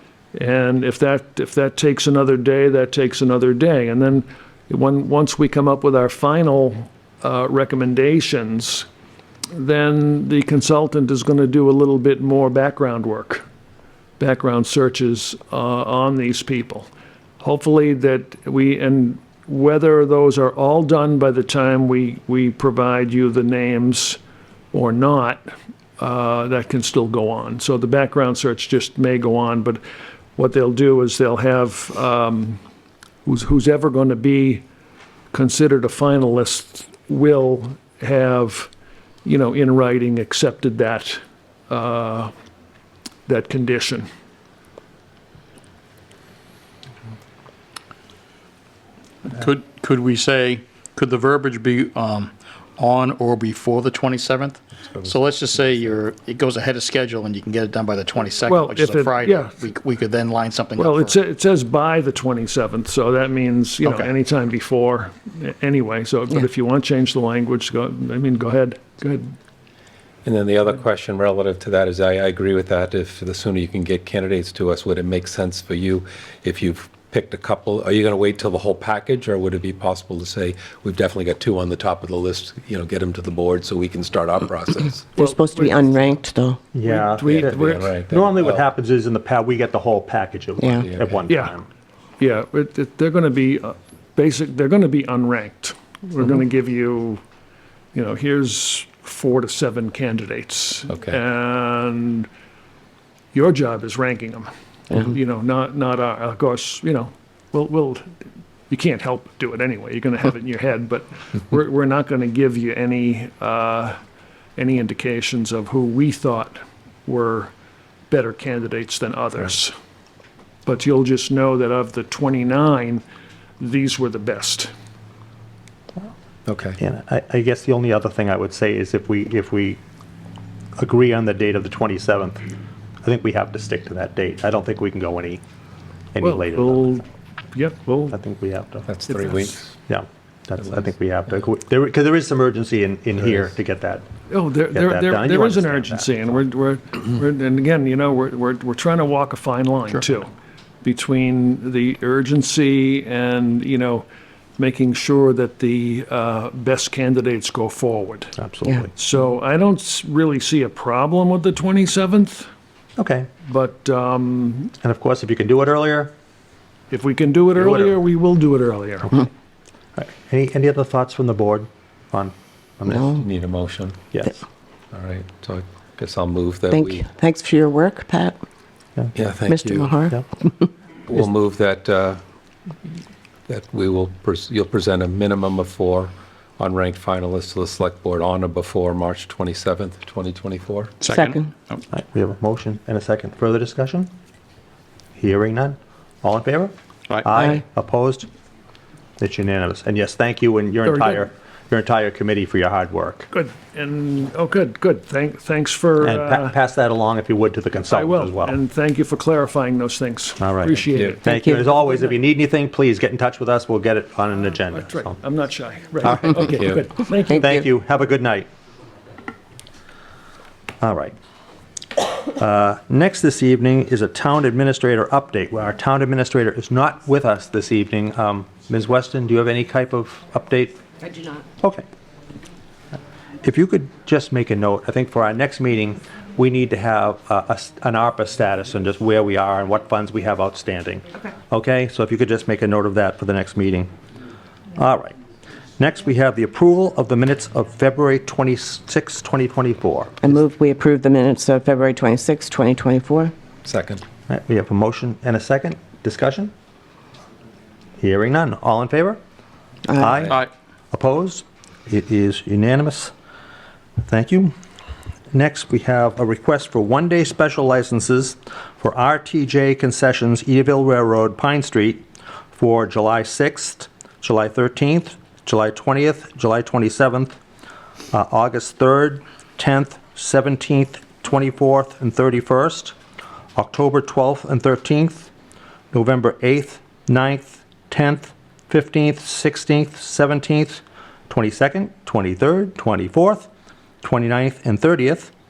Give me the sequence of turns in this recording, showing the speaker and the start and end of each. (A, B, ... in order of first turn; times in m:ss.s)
0:00.3-0:08.9 A
0:09.5-0:13.4 A
0:14.2-0:16.9 A
0:17.4-0:24.2 A
0:24.7-0:29.8 A
0:30.4-0:32.6 A
0:33.3-0:34.6 A
0:35.3-0:38.7 A
0:39.2-0:42.3 A
0:43.3-0:44.1 A
0:49.3-1:01.2 B
0:58.5-0:59.6 A
1:00.8-1:09.3 A
1:03.8-1:04.1 B
1:10.2-1:25.1 C
1:25.2-1:26.2 A
1:25.2-1:26.6 D
1:26.7-1:31.7 E
1:26.8-1:27.9 A
1:27.2-1:28.6 C
1:30.6-1:30.9 D
1:30.8-1:31.2 C
1:31.3-1:31.5 A
1:32.2-1:37.2 A
1:37.9-1:42.3 A
1:40.9-1:41.2 C
1:43.3-1:48.1 A
1:48.7-1:54.0 A
1:54.6-1:57.5 A
1:58.1-1:59.7 A
2:00.6-2:03.0 A
2:03.6-2:04.7 A
2:06.5-2:06.8 C
2:06.8-2:09.8 E
2:10.8-2:12.4 E
2:13.0-2:15.4 E
2:16.1-2:16.9 E
2:16.2-2:18.1 A
2:18.1-2:18.9 E
2:18.9-2:19.7 C
2:19.1-2:19.5 A
2:19.9-2:24.1 E
2:24.3-2:30.3 A
2:24.7-2:26.4 E
2:30.8-2:34.1 A
2:34.6-2:38.4 A
2:38.4-2:38.9 E
2:39.0-2:42.5 A
2:43.0-2:43.3 E
2:43.5-2:44.7 A
2:44.8-2:46.1 E
2:46.9-2:49.3 A
2:47.6-2:48.0 E
2:50.0-2:53.1 E
2:52.9-2:53.2 D
2:53.2-2:54.0 C
2:54.9-2:57.1 C
2:56.7-2:58.4 D
2:59.2-3:00.0 C
2:59.5-3:00.7 D
3:01.1-3:02.2 C
3:03.5-3:11.0 C
3:11.0-3:11.8 B
3:11.1-3:11.5 D
3:11.9-3:14.1 E
3:15.2-3:18.3 E
3:19.2-3:23.3 E
3:20.8-3:21.3 A
3:23.3-3:26.5 A
3:26.0-3:28.6 E
3:27.9-3:31.2 A
3:30.4-3:35.2 E
3:30.9-3:31.2 C
3:31.2-3:31.6 D
3:34.7-3:37.6 A
3:36.4-3:36.8 C
3:37.3-3:37.6 D
3:37.3-3:38.5 E
3:40.8-3:41.2 E
3:42.3-3:50.8 E
3:53.4-4:03.9 E
4:04.8-4:05.2 E
4:05.8-4:10.3 E
4:10.2-4:13.3 D
4:13.6-4:14.0 C
4:14.3-4:16.5 E
4:18.0-4:19.2 E
4:19.9-4:20.2 D
4:20.0-4:23.1 E
4:24.0-4:24.5 E
4:25.3-4:32.0 E
4:32.6-4:37.4 E
4:38.1-4:43.0 E
4:43.6-4:45.3 E
4:45.9-4:53.5 E
4:54.0-4:55.3 E